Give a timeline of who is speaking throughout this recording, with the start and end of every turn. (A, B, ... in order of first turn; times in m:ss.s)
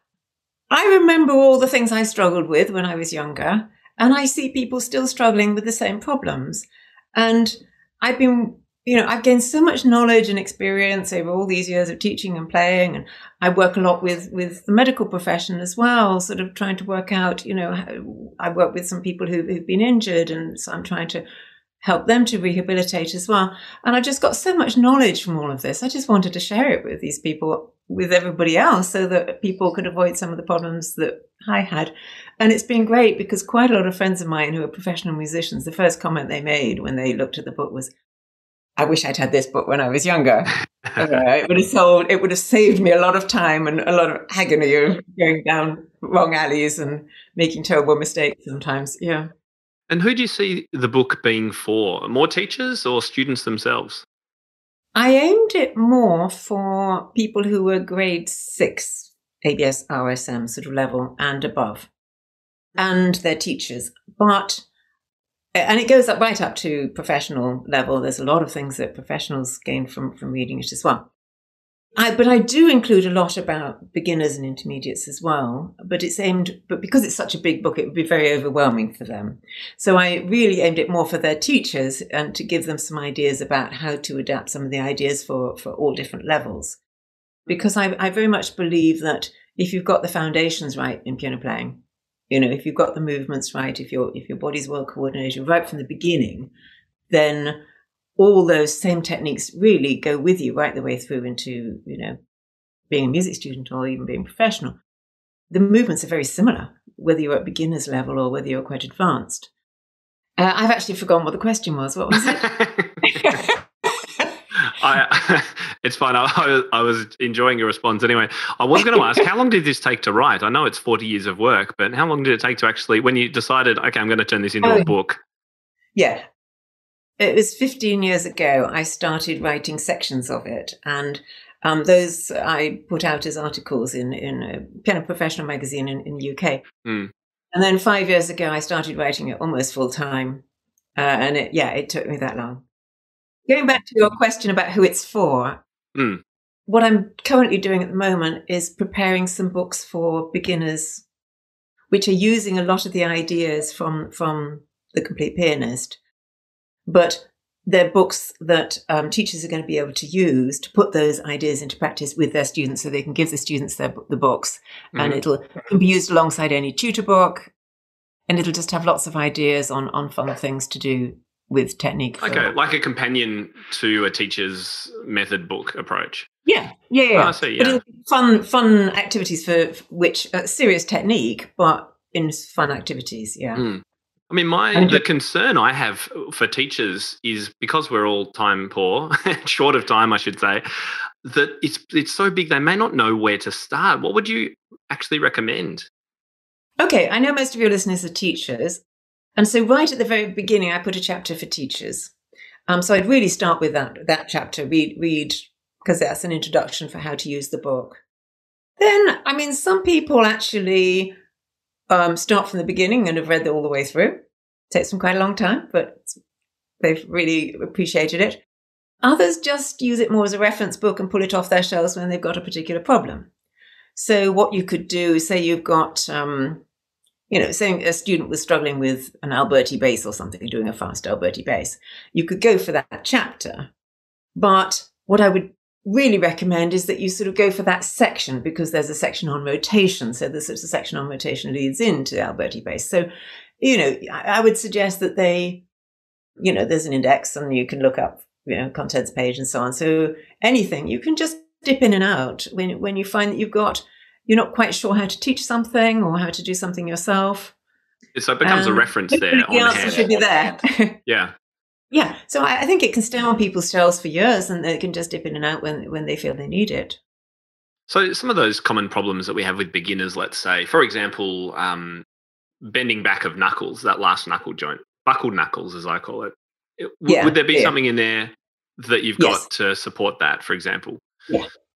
0:00.7-0:21.2 A
0:21.8-0:37.9 A
0:38.8-0:49.3 A
0:40.8-0:41.2 B
0:49.9-0:54.0 B
0:54.9-1:01.9 A
1:02.8-1:04.6 A
1:05.5-1:11.1 A
1:12.0-1:26.8 A
1:27.5-1:36.5 A
1:37.1-1:37.6 A
1:38.2-1:42.2 A
1:42.9-1:44.8 A
1:45.5-1:49.5 A
1:50.4-1:52.4 A
1:52.2-1:53.3 B
1:53.0-1:53.6 A
1:54.6-2:05.2 B
1:58.9-1:59.2 A
2:04.6-2:04.9 A
2:05.9-2:06.2 A
2:07.2-2:16.6 A
2:16.8-2:17.1 B
2:17.5-2:20.4 A
2:21.0-2:22.6 A
2:23.5-2:25.6 A
2:25.9-2:26.2 B
2:26.7-2:31.0 A
2:31.9-2:36.0 A
2:36.8-2:47.5 A
2:44.9-2:45.2 B
2:48.3-2:52.5 A
2:52.2-2:56.3 B
2:56.4-3:03.6 A
2:57.1-2:57.8 B
3:03.5-3:10.6 B
3:04.7-3:05.0 A
3:11.2-3:15.9 B
3:16.8-3:18.8 A
3:19.4-3:22.1 A
3:22.7-3:28.0 A
3:28.8-3:31.1 A
3:31.9-3:36.2 A
3:36.8-3:38.4 A
3:39.0-3:43.3 A
3:43.9-3:46.6 A
3:47.3-3:53.7 A
3:54.3-4:03.0 A
4:03.6-4:05.6 A
4:06.4-4:17.5 A
4:18.1-4:20.2 B
4:18.4-4:21.0 A
4:21.1-4:21.3 B
4:21.9-4:27.0 A
4:27.9-4:32.0 B
4:32.6-4:41.0 B
4:37.0-4:37.7 A
4:39.2-4:39.4 A